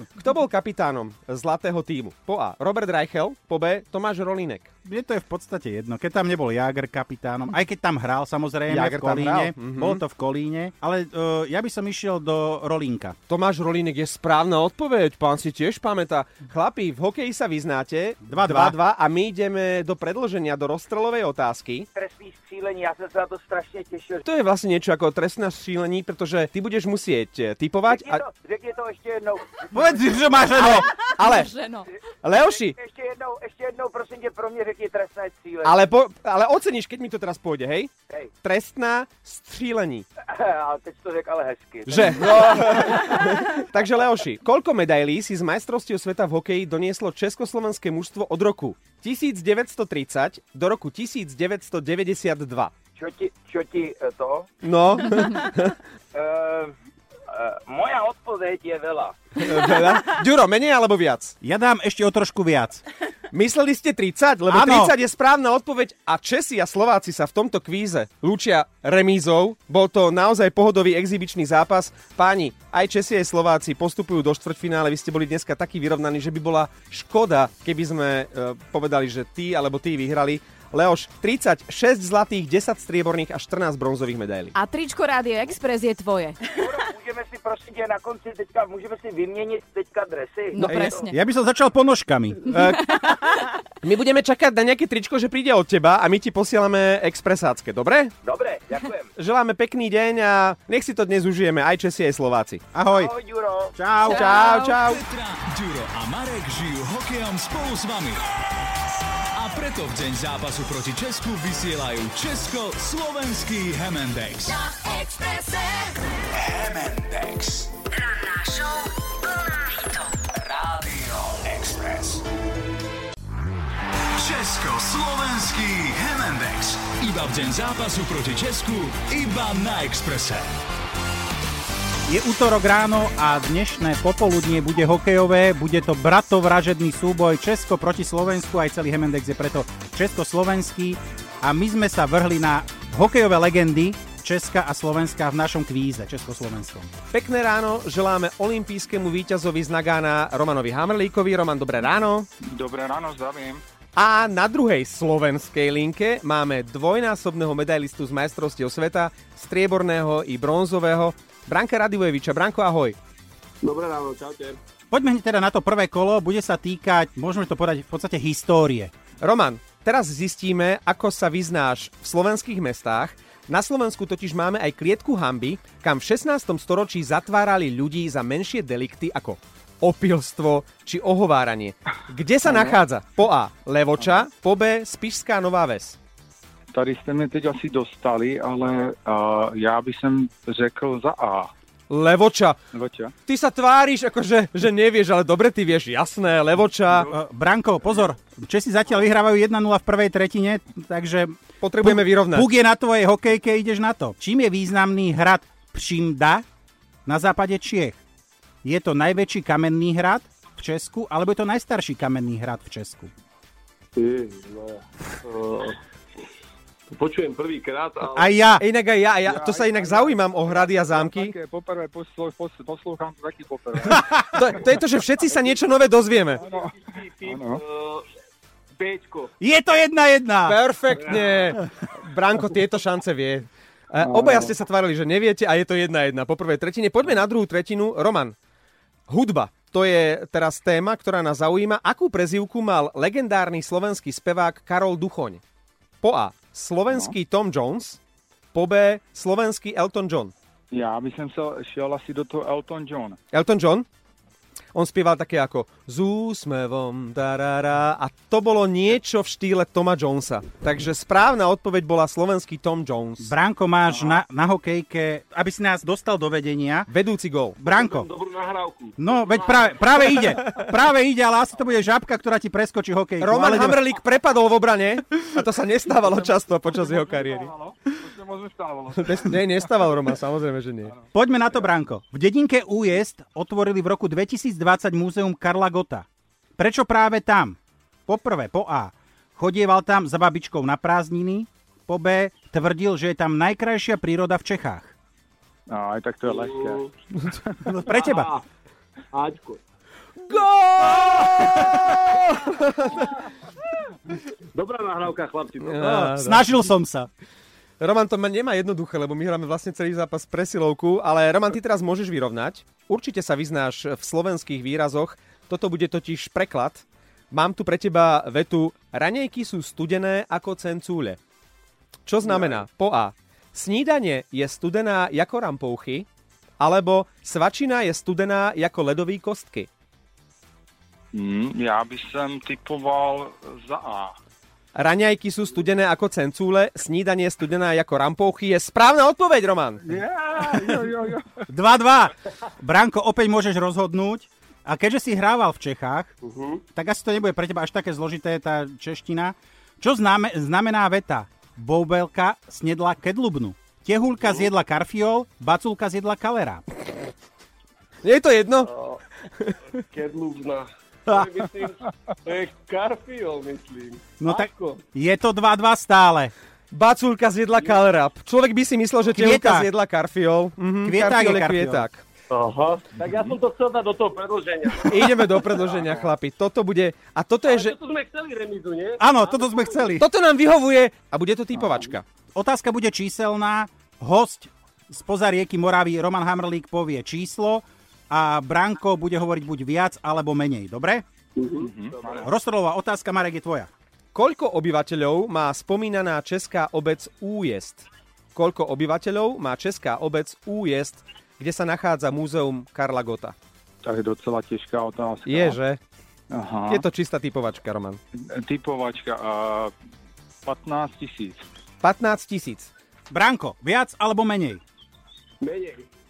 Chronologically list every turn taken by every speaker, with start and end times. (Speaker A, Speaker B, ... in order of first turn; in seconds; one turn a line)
Speaker A: 0.2-4.7
Speaker B: 4.8-13.2
Speaker A: 8.7-10.0
Speaker A: 13.3-21.9
Speaker B: 18.2-18.8
Speaker C: 21.9-24.2
Speaker A: 24.2-28.2
Speaker C: 27.9-30.7
Speaker B: 29.7-30.9
Speaker A: 30.5-31.5
Speaker D: 30.7-31.9
Speaker A: 32.2-32.8
Speaker C: 32.3-35.8
Speaker A: 35.6-40.0
Speaker C: 40.4-43.4
Speaker A: 41.9-52.7
Speaker C: 53.0-54.5
Speaker A: 54.6-55.7
Speaker C: 56.2-56.7
Speaker C: 57.4-59.1
Speaker A: 59.4-61.3
Speaker B: 61.4-62.8
Speaker A: 63.3-84.5
Speaker B: 64.5-64.9
Speaker D: 84.5-86.4
Speaker C: 86.6-90.5
Speaker D: 90.5-91.1
Speaker B: 90.6-92.6
Speaker A: 90.7-90.9
Speaker A: 92.5-92.9
Speaker A: 93.8-98.1
Speaker C: 98.2-99.0
Speaker A: 99.1-102.6
Speaker B: 102.7-103.1
Speaker C: 102.9-103.7
Speaker B: 103.7-104.3
Speaker A: 104.0-105.0
Speaker E: 104.2-108.2
Speaker E: 109.3-114.6
Speaker D: 114.7-115.6
Speaker E: 116.3-118.9
Speaker E: 119.5-122.2
Speaker E: 124.2-130.4
Speaker B: 132.1-146.9
Speaker A: 147.1-152.3
Speaker F: 152.4-153.6
Speaker A: 153.9-163.0
Speaker G: 163.6-164.6
Speaker B: 164.9-168.9
Speaker A: 169.2-186.0
Speaker F: 182.5-182.8
Speaker F: 184.0-184.2
Speaker F: 186.7-191.5
Speaker A: 191.9-192.6
Speaker F: 192.7-193.1
Speaker A: 193.2-197.1
Speaker B: 197.0-206.4
Speaker A: 201.6-202.5
Speaker B: 207.1-208.0
Speaker B: 208.6-213.1
Speaker G: 213.9-215.7
Speaker G: 216.9-218.4
Speaker B: 218.1-218.6
Speaker A: 218.6-221.3
Speaker F: 219.3-224.1
Speaker A: 224.3-226.4
Speaker F: 226.4-227.6
Speaker G: 226.9-228.0
Speaker G: 228.8-229.3
Speaker B: 229.4-230.6
Speaker A: 230.4-238.3
Speaker F: 234.0-234.5
Speaker A: 239.1-245.4
Speaker A: 246.0-248.0
Speaker F: 246.9-247.1
Speaker A: 248.5-250.3
Speaker F: 250.7-253.2
Speaker A: 253.3-253.8
Speaker A: 254.7-263.3
Speaker B: 263.2-266.9
Speaker A: 266.9-267.6
Speaker B: 267.6-268.1
Speaker G: 267.6-269.5
Speaker B: 269.0-273.8
Speaker A: 273.2-277.5
Speaker F: 276.7-279.2
Speaker A: 278.9-280.9
Speaker B: 281.1-286.1
Speaker B: 286.6-294.9
Speaker F: 295.7-297.6
Speaker G: 296.3-296.9
Speaker B: 297.6-298.3
Speaker G: 297.9-298.4
Speaker G: 299.1-299.6
Speaker A: 300.3-303.0
Speaker G: 304.5-306.1
Speaker A: 305.6-306.5
Speaker B: 305.8-307.1
Speaker A: 307.8-321.2
Speaker A: 322.1-326.1
Speaker A: 326.6-329.7
Speaker F: 331.1-334.1
Speaker A: 334.7-339.8
Speaker F: 339.9-341.4
Speaker B: 341.5-346.1
Speaker G: 346.2-346.6
Speaker B: 346.7-356.6
Speaker A: 358.0-358.7
Speaker G: 359.9-364.8
Speaker B: 361.1-361.4
Speaker B: 364.2-366.3
Speaker A: 366.7-372.0
Speaker B: 369.1-369.7
Speaker B: 370.8-371.9
Speaker G: 372.3-375.8
Speaker A: 374.9-377.8
Speaker G: 377.4-379.9
Speaker B: 379.0-380.1
Speaker A: 380.0-382.0
Speaker F: 381.5-381.9
Speaker B: 382.3-391.0
Speaker G: 391.4-391.6
Speaker F: 391.6-392.3
Speaker B: 392.2-393.7
Speaker A: 394.1-403.3
Speaker F: 403.8-405.6
Speaker A: 405.2-405.8
Speaker F: 406.3-406.8
Speaker A: 406.7-408.0
Speaker F: 408.3-409.7
Speaker F: 410.4-411.4
Speaker A: 411.8-412.7
Speaker B: 413.1-414.6
Speaker G: 415.4-415.8